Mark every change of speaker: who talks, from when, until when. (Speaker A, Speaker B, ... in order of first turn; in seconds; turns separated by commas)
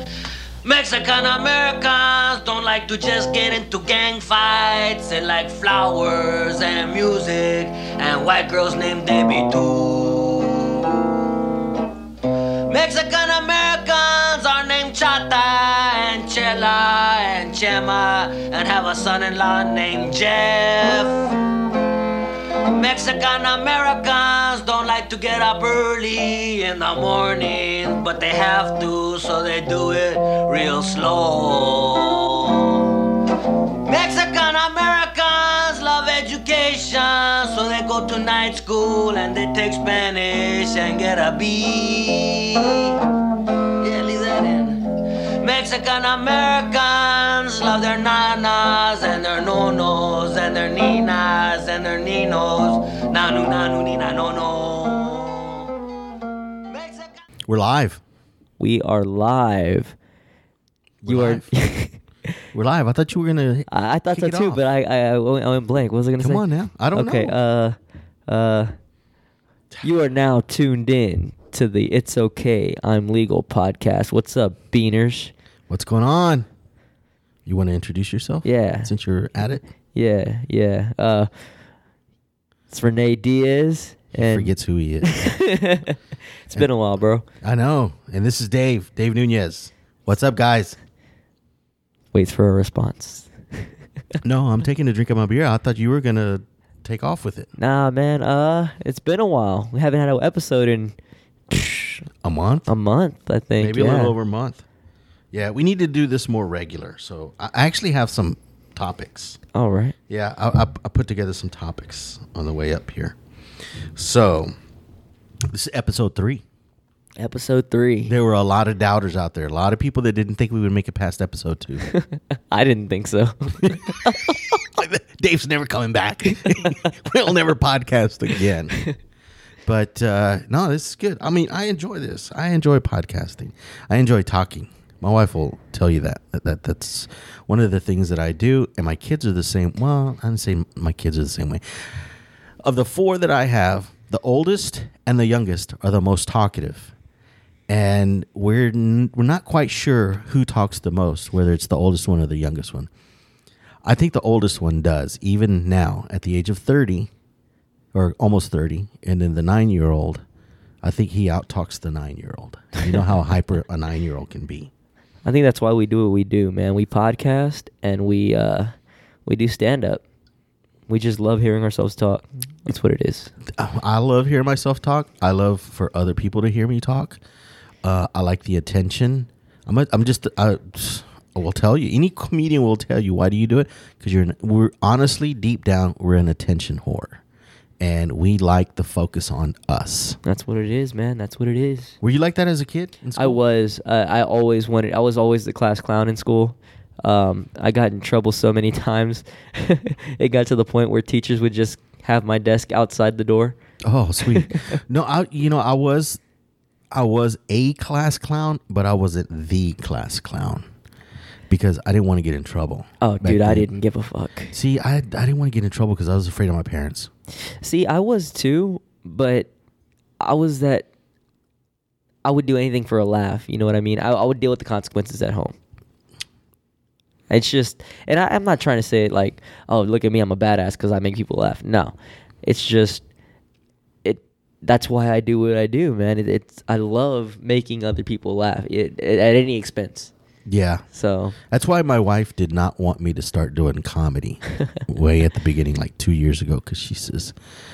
Speaker A: 0.6-11.4, Speaker A: 12.7-21.3, Speaker A: 22.7-33.2, Speaker A: 33.9-43.1, Speaker A: 43.8-55.7, Speaker A: 56.7-57.2, Speaker B: 57.5-58.0, Speaker C: 58.6-59.9, Speaker B: 61.0-61.5, Speaker C: 61.0-62.4, Speaker B: 62.5-64.6, Speaker C: 63.7-67.8, Speaker B: 66.2-67.3, Speaker C: 68.3-68.7, Speaker C: 69.8-75.3, Speaker B: 75.7-76.5, Speaker B: 77.5-79.6, Speaker C: 78.4-78.9, Speaker C: 79.9-81.3, Speaker C: 82.7-84.5, Speaker B: 84.1-85.3, Speaker C: 85.0-87.2, Speaker B: 87.4-90.8, Speaker C: 92.1-93.3, Speaker B: 94.2-97.5, Speaker C: 97.6-100.9, Speaker C: 101.5-102.0, Speaker B: 102.2-102.7, Speaker C: 102.7-104.1, Speaker B: 103.6-104.6, Speaker B: 105.3-109.4, Speaker C: 109.5-109.9, Speaker B: 110.1-113.2, Speaker B: 113.9-114.5, Speaker B: 115.5-116.4, Speaker C: 117.2-118.1, Speaker B: 118.1-121.9, Speaker C: 121.9-124.4, Speaker B: 124.5-128.9, Speaker B: 129.6-142.0, Speaker B: 142.6-146.9, Speaker B: 147.7-152.9, Speaker B: 153.8-157.1, Speaker B: 157.9-160.2, Speaker B: 160.8-164.7, Speaker C: 165.2-168.7, Speaker C: 169.2-170.0, Speaker C: 170.9-173.3, Speaker B: 173.5-177.2, Speaker B: 177.8-187.2, Speaker B: 187.8-190.2, Speaker C: 190.2-192.0, Speaker B: 192.0-193.3, Speaker C: 193.2-203.6, Speaker B: 203.8-206.2, Speaker C: 204.3-204.7, Speaker B: 206.9-210.7, Speaker B: 211.5-213.7, Speaker C: 213.0-214.5, Speaker B: 214.5-217.1, Speaker C: 217.6-219.5, Speaker C: 220.2-220.9, Speaker C: 222.2-225.6, Speaker C: 227.3-233.0, Speaker C: 234.0-240.1, Speaker B: 240.4-240.8, Speaker C: 240.9-241.3, Speaker B: 241.4-247.3